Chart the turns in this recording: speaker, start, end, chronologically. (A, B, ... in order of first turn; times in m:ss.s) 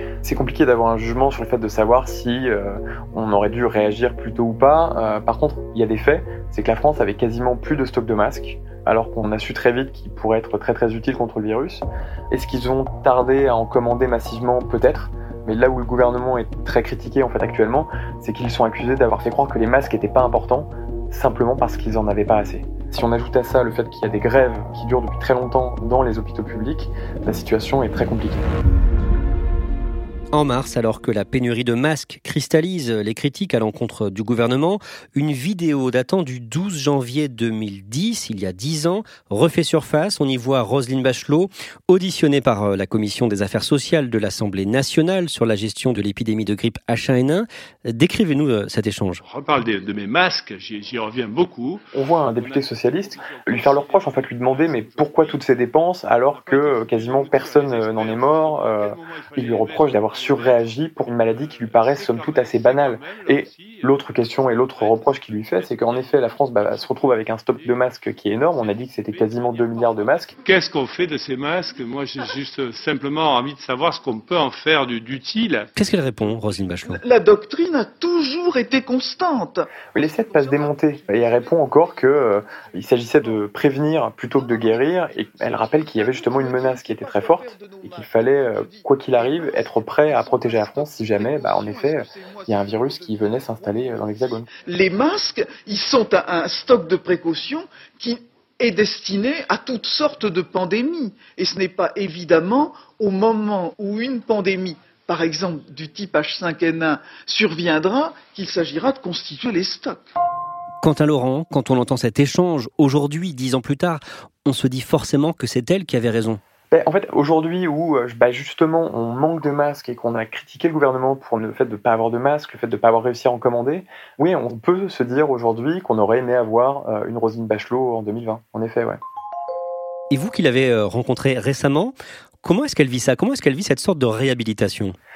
0:00.2-0:28.4 A
0:30.3-0:49.2 B
0:49.2-0:55.4 C
0:51.9-1:10.3 A
0:56.3-1:07.8 C
1:08.5-1:15.7 C
1:15.8-1:17.0 B
1:16.8-1:22.3 D
1:19.9-1:34.5 A
1:24.4-1:50.1 D
1:50.8-1:56.4 B
1:56.7-2:09.0 A
2:10.1-2:15.0 B